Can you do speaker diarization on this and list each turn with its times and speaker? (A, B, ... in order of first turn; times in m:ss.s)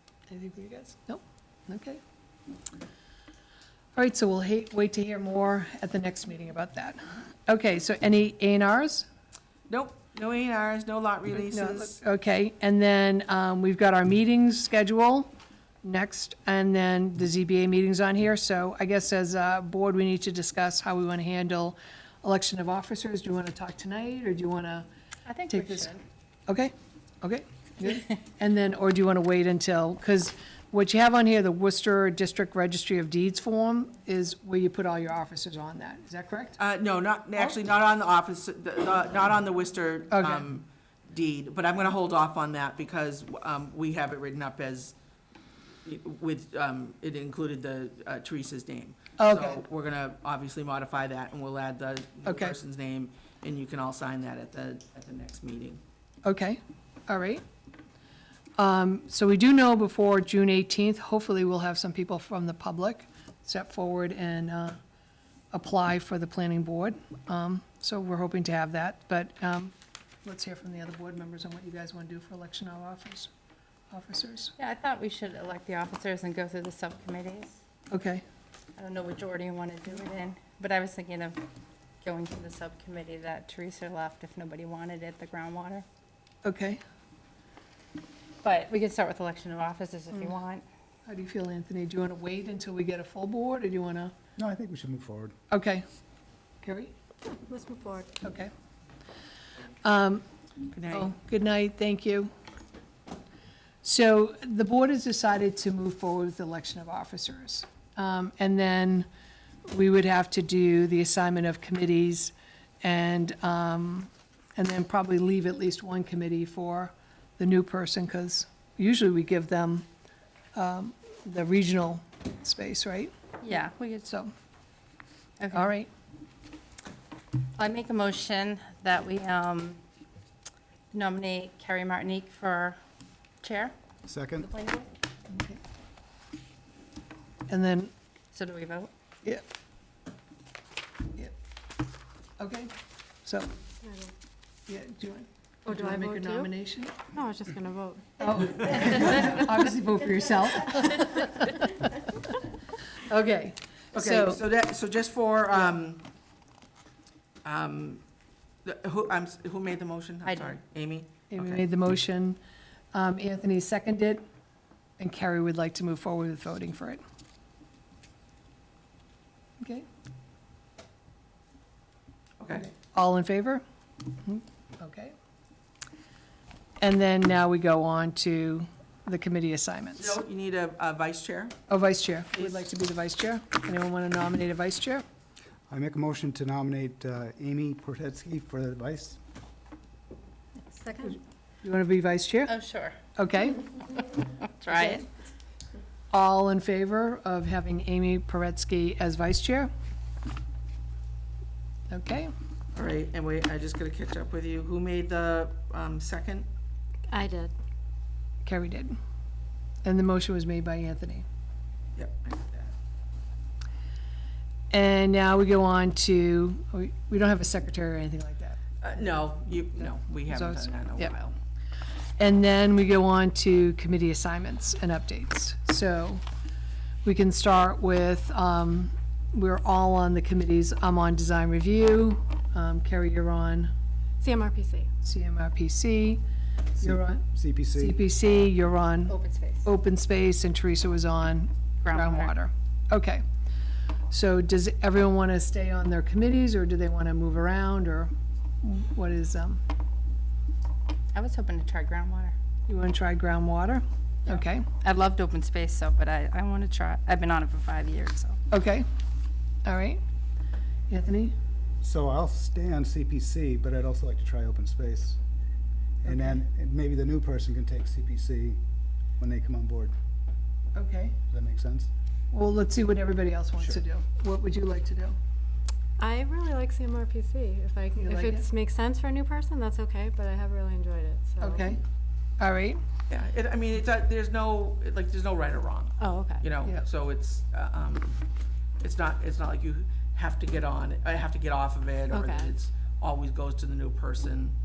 0:00.3-0:02.0 A
0:03.9-0:09.1 A
0:09.7-0:12.0 B
0:11.4-0:24.9 A
0:25.2-0:26.0 C
0:25.5-0:25.9 A
0:26.5-0:36.6 A
0:36.6-0:44.9 B
0:40.1-0:40.5 A
0:45.8-0:55.8 B
0:49.2-0:49.6 A
0:52.2-0:52.6 A
0:56.2-0:57.4 A
0:58.6-1:04.8 A
1:05.5-1:13.3 A
1:13.9-1:14.5 A
1:14.6-1:17.6 C
1:17.9-1:18.2 A
1:18.8-1:21.4 C
1:22.0-1:25.8 C
1:26.4-1:26.8 A
1:28.4-1:30.6 C
1:31.0-1:34.1 A
1:34.4-1:35.3 D
1:35.5-1:35.8 A
1:36.6-1:36.9 A
1:37.4-1:38.1 E
1:38.2-1:38.5 A
1:39.8-1:40.2 A
1:40.7-1:41.1 B
1:40.8-1:42.3 A
1:43.8-1:49.1 A
1:49.7-1:59.9 A
2:00.5-2:03.1 A
2:03.4-2:04.0 C
2:04.0-2:04.3 A
2:05.4-2:05.7 C
2:05.5-2:05.9 A
2:07.6-2:09.8 C
2:10.9-2:12.8 C
2:13.4-2:13.7 C
2:14.0-2:14.5 D
2:14.4-2:14.9 C
2:15.3-2:15.6 A
2:17.5-2:17.9 A
2:18.3-2:18.9 C
2:22.4-2:22.7 A
2:23.2-2:23.5 A
2:23.8-2:24.1 E
2:24.7-2:27.0 A
2:25.7-2:26.5 E
2:27.1-2:28.7 E
2:28.2-2:32.0 A
2:32.9-2:34.4 A
2:33.9-2:36.0 B
2:37.4-2:38.0 B
2:38.6-2:41.6 B
2:40.2-2:40.6 C
2:41.3-2:42.4 A
2:42.9-2:44.2 A
2:45.0-2:47.0 A
2:49.6-2:49.8 A
2:52.4-2:52.6 B
2:52.5-2:53.6 A
2:54.2-2:55.1 A
2:56.8-3:00.2 A
3:00.0-3:01.6 B
3:01.7-3:05.0 A
3:02.3-3:02.7 B
3:05.7-3:09.2 D
3:10.7-3:11.1 E
3:10.9-3:12.5 A
3:12.4-3:13.0 C
3:13.1-3:13.7 A
3:13.9-3:15.0 C
3:14.7-3:15.1 A
3:16.1-3:19.7 A
3:21.9-3:22.3 A
3:22.7-3:26.5 B
3:27.1-3:27.5 E
3:28.4-3:29.0 A
3:29.8-3:31.2 A
3:32.0-3:32.7 B
3:34.7-3:38.6 A
3:38.8-3:41.3 B
3:40.3-3:41.1 A
3:42.2-3:46.2 A
3:47.0-3:53.7 A
3:54.2-3:54.9 E
3:55.0-3:56.2 A
3:56.8-4:03.2 A
3:56.8-3:58.0 D
3:59.1-3:59.7 C
4:01.8-4:02.3 C
4:04.1-4:08.1 A
4:08.6-4:09.6 A
4:11.1-4:12.3 C
4:12.7-4:14.7 A
4:14.3-4:18.4 C
4:18.5-4:18.9 A
4:19.6-4:20.0 A
4:20.9-4:21.4 A
4:21.8-4:25.2 D
4:26.0-4:28.6 D
4:26.0-4:26.4 A
4:29.2-4:29.9 D
4:30.7-4:31.2 A
4:31.3-4:31.9 D
4:32.3-4:35.2 A
4:36.0-4:41.7 E
4:38.0-4:38.5 A
4:41.4-4:41.8 A
4:42.4-4:42.8 A
4:43.1-4:48.2 B
4:46.0-4:46.4 E
4:48.8-4:54.5 B
4:52.1-4:52.5 E